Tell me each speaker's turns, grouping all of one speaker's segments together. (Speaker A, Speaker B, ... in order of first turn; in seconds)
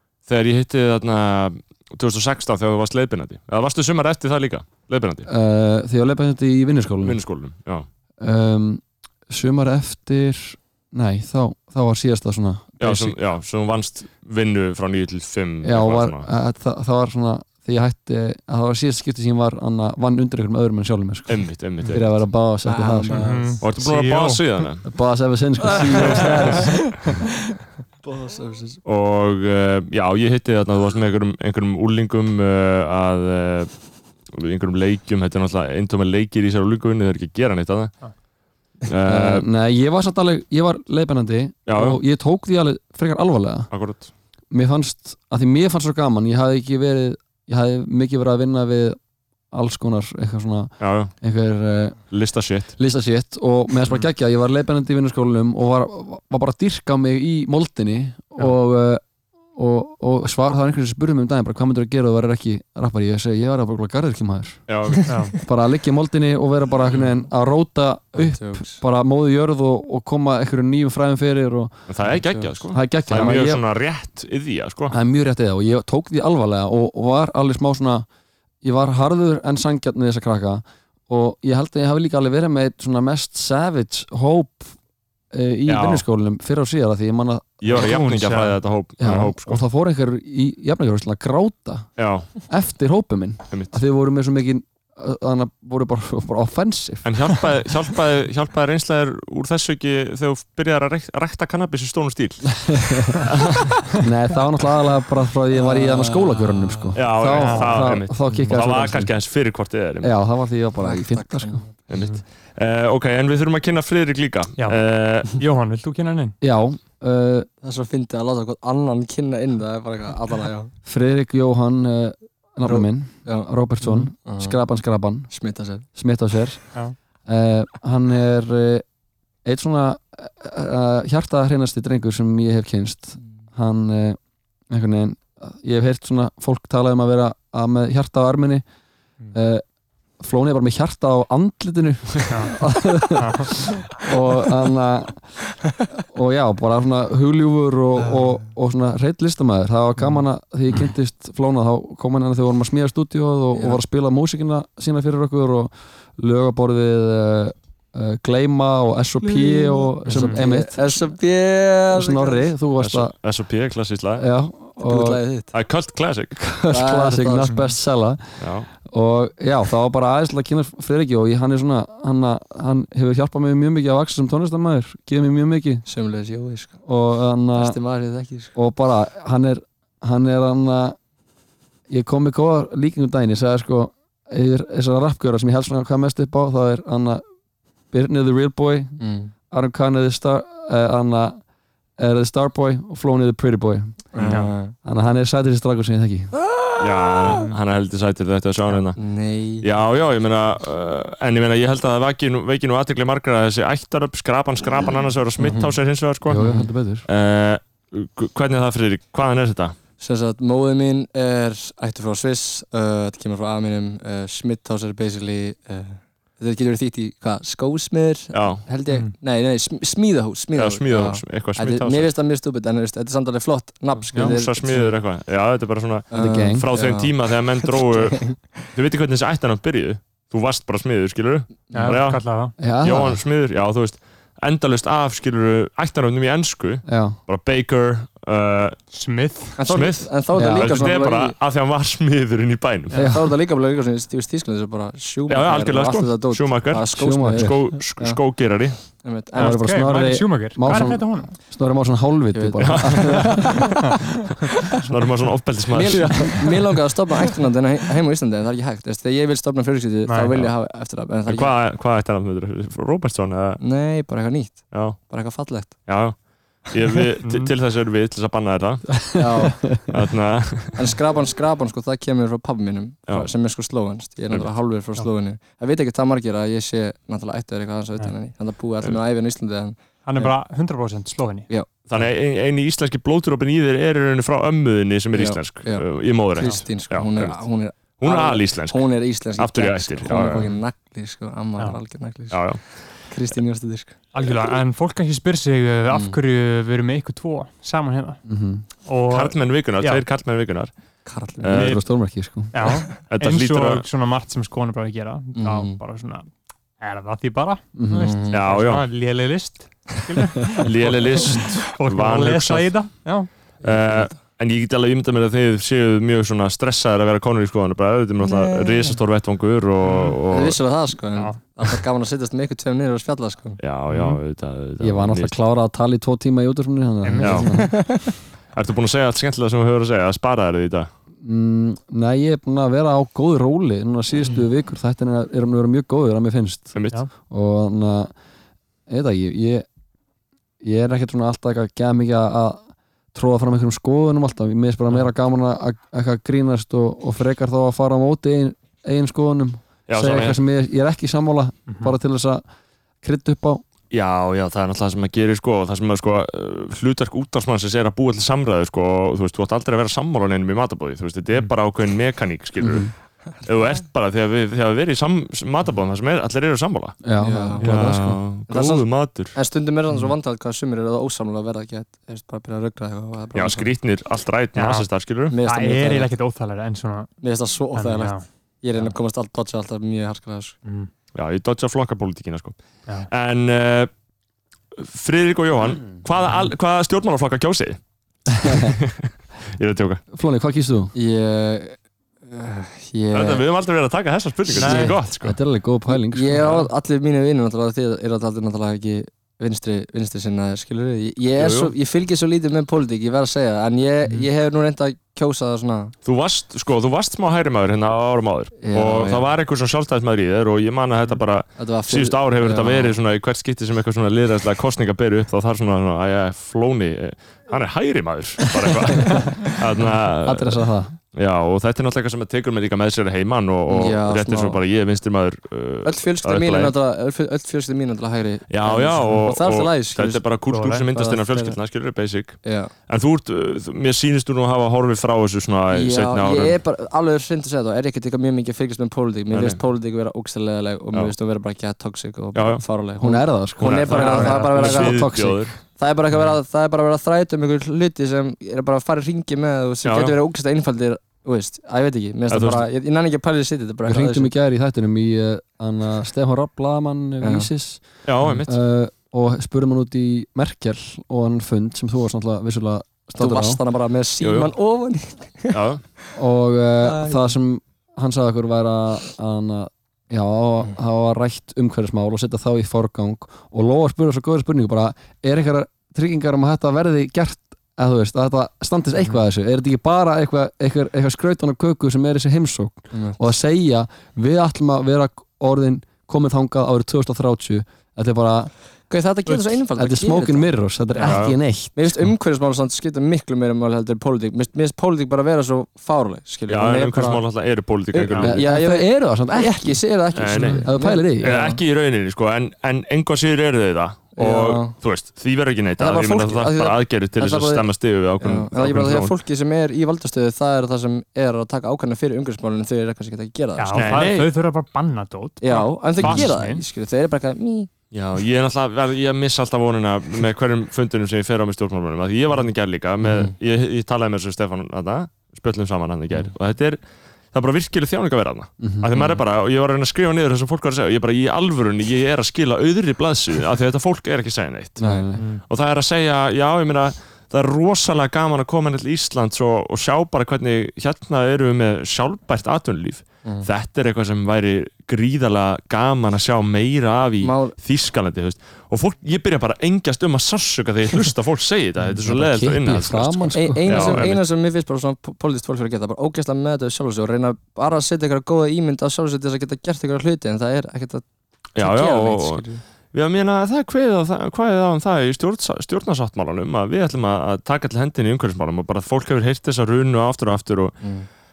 Speaker A: 0.2-5.3, 7.0-7.9, 12.8-16.3, 21.3-22.1, 23.6-24.9, 26.0-26.5, 28.8-33.7, 34.3-37.9, 38.8-39.5, 41.6-42.0, 43.7-44.1, 50.8-51.1, 52.1-52.7, 64.7-65.1, 71.9-75.0, 85.7-86.0, 87.6-89.6, 92.0-92.3, 93.5-93.8, 97.0-102.6, 103.1-103.9, 106.9-110.1, 111.9-115.3, 162.8-164.3, 165.5-166.4, 168.4-168.7, 196.8-199.0, 199.6-206.5, 207.0-209.8, 218.3-218.6, 220.5-222.1, 224.0-232.2, 232.8-238.8, 239.6-243.0, 245.3-248.8, 252.6-253.4, 254.8-256.3, 261.3-263.6, 264.7-265.0, 265.9-269.0, 269.9-270.8, 281.9-287.4, 288.0-288.8, 289.4-290.5, 292.3-292.6, 299.1-300.7, 301.4-301.8, 303.1-303.8, 308.3-308.9, 310.6-312.7, 313.6-320.6, 323.6-325.4, 327.2-327.5, 328.5-330.9, 336.7-337.0, 349.9-350.4, 353.9-362.9, 363.4-367.0, 367.6-369.4, 373.3-375.4, 381.1-383.9, 384.7-387.8, 388.4-390.0, 393.1-395.4, 401.4-401.7, 406.0-420.6, 421.1-426.7, 428.5-436.6, 439.3-439.6, 442.3-442.6, 443.6-445.6, 449.8-450.2, 452.3-452.6, 458.0-458.6, 464.2-464.5, 465.5-465.8, 491.0-491.4, 496.5-498.4, 500.1-500.7, 501.2-509.1, 513.7-514.3, 516.0-516.3, 517.9-526.8, 527.3-534.8, 535.5-554.2, 561.5-570.8
Speaker B: 5.2-7.2, 8.2-13.2, 15.6-23.6, 24.8-27.1, 39.0-43.8, 44.5-49.0, 49.5-52.1, 52.8-64.7, 65.4-73.6, 74.9-78.0, 78.6-84.7, 85.3-87.8, 89.0-97.1, 102.5-103.3, 104.0-109.1, 110.0-111.6, 116.4-117.5, 120.8-125.3, 125.9-126.7, 127.2-128.8, 129.4-134.2, 134.7-138.6, 139.3-139.6, 140.2-145.3, 146.1-160.9, 161.9-163.1, 164.2-165.2, 166.3-175.8, 176.8-177.8, 178.6-181.0, 181.9-187.2, 187.9-189.0, 189.5-191.4, 192.0-194.1, 194.8-196.3, 206.2-207.1, 226.1-226.7, 232.6-233.2, 236.8-237.2, 240.3-240.9, 242.9-243.3, 246.9-247.8, 249.3-253.6, 268.9-269.9, 298.2-298.6, 301.5-302.6, 307.7-308.1, 324.8-327.7, 331.2-338.1, 338.9-339.6, 340.6-352.4, 353.0-353.6, 362.6-362.9, 367.0-368.3, 388.4-388.7, 390.1-390.9, 394.7-396.6, 420.2-420.9, 443.0-445.4, 453.8-463.6, 466.1-488.5, 489.8-492.1, 498.2-499.8, 500.6-501.4, 528.6-528.9, 534.8-535.2, 552.0-554.1
Speaker C: 22.6-23.6, 25.6-27.0, 28.0-28.8, 65.0-65.4, 68.1-68.8, 105.7-106.9, 110.8-111.7, 117.6-120.7, 122.6-123.5, 124.1-124.6, 125.3-125.9, 148.0-148.4, 153.5-153.8, 159.2-162.5, 164.8-165.5, 166.7-167.6, 175.9-176.8, 177.5-178.5, 189.0-189.3, 194.1-194.8, 198.9-199.6, 205.4-205.8, 210.0-225.0, 226.1-228.5, 239.6-241.4, 243.0-248.2, 249.0-249.6, 252.3-253.8, 255.7-261.5, 263.6-265.9, 269.2-269.6, 270.7-280.3, 281.5-281.9, 285.1-292.5, 293.1-294.1, 295.9-296.2, 301.0-301.6, 305.3-305.8, 308.0-308.4, 313.6-314.2, 318.2-318.9, 320.2-323.6, 327.3-328.1, 367.2-367.7, 368.5-373.7, 375.3-376.1, 377.2-380.6, 390.9-393.4, 394.6-394.9, 395.9-405.9, 408.6-409.2, 411.6-412.9, 423.7-424.6, 425.8-430.3, 430.9-431.6, 432.4-432.7, 435.7-454.3, 457.2-457.5, 463.1-465.6, 466.8-467.3, 482.9-483.3, 488.9-497.2, 497.9-501.6, 504.1-504.8, 505.8-507.7, 508.2-514.0, 515.4-517.7, 523.0-523.3, 534.8-535.1, 547.2-547.5, 553.3-561.0, 561.6-562.6, 570.8-571.1
Speaker D: 23.1-24.7, 65.1-65.3, 87.7-88.6, 107.3-107.8, 114.6-116.3, 143.2-143.5, 160.1-160.4, 224.1-224.4, 231.7-232.5, 238.9-239.6, 249.3-251.3, 260.1-260.5, 267.2-267.5, 280.0-281.5, 294.1-298.2, 298.8-300.0, 302.5-313.3, 319.9-320.1, 321.1-321.4, 323.9-324.2, 327.0-327.6, 351.7-351.9, 374.5-374.9, 375.4-377.1, 377.7-378.2, 394.6-394.9, 430.5-430.9, 444.0-444.3, 489.3-489.5, 500.4-500.6, 513.6-516.6, 535.2-535.4